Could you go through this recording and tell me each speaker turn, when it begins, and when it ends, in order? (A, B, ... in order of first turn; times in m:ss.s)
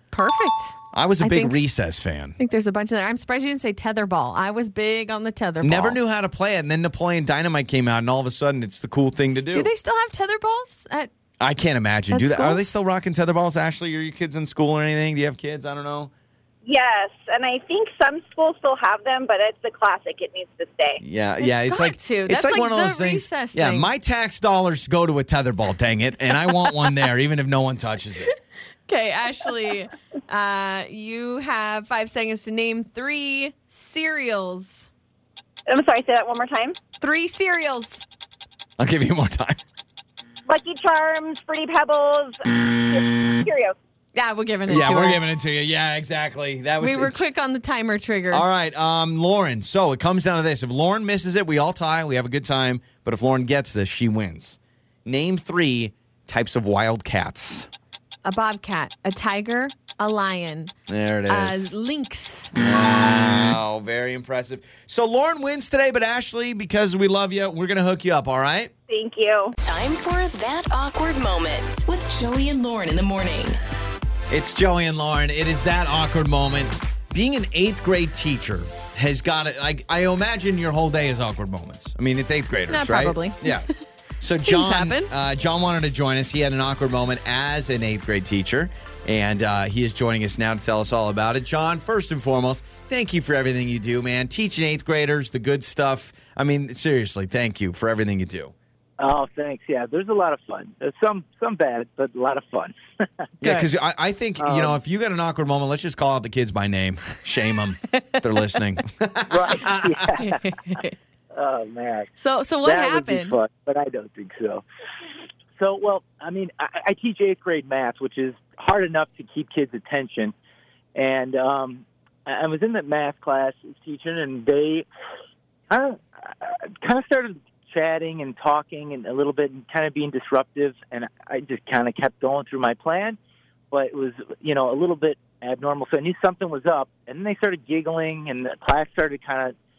0:00.1-0:01.6 A
0:00.9-0:02.4 B
0:02.4-0:06.0 A
0:05.6-0:09.7 B
0:09.5-0:11.1 A
0:11.4-0:16.1 B
0:12.1-0:12.6 A
0:16.6-0:21.0 C
0:21.0-0:28.3 B
0:21.4-0:23.9 A
0:28.9-0:34.9 A
0:35.7-0:36.8 C
0:37.0-0:38.0 A
0:38.8-0:39.6 B
0:40.5-0:43.8 C
0:44.2-0:45.2 A
0:44.7-0:47.2 B
0:46.8-0:48.5 A
0:48.3-0:57.7 B
0:58.3-1:00.7 A
1:00.9-1:01.7 B
1:01.3-1:02.5 A
1:02.6-1:08.7 B
1:08.9-1:09.5 C
1:09.6-1:13.6 D
1:14.3-1:23.7 B
1:22.7-1:23.6 A
1:24.2-1:38.5 B
1:24.5-1:25.1 A
1:39.0-1:43.1 E
1:43.4-1:43.7 A
1:43.4-1:50.0 B
1:44.4-1:44.8 E
1:47.9-1:48.6 A
1:49.3-1:50.4 E
1:50.2-1:51.0 A
1:51.3-1:52.1 E
1:52.2-1:53.4 A
1:52.6-1:54.6 E
1:55.6-2:00.3 E
2:01.0-2:04.9 E
2:05.7-2:13.2 E
2:13.7-2:19.5 E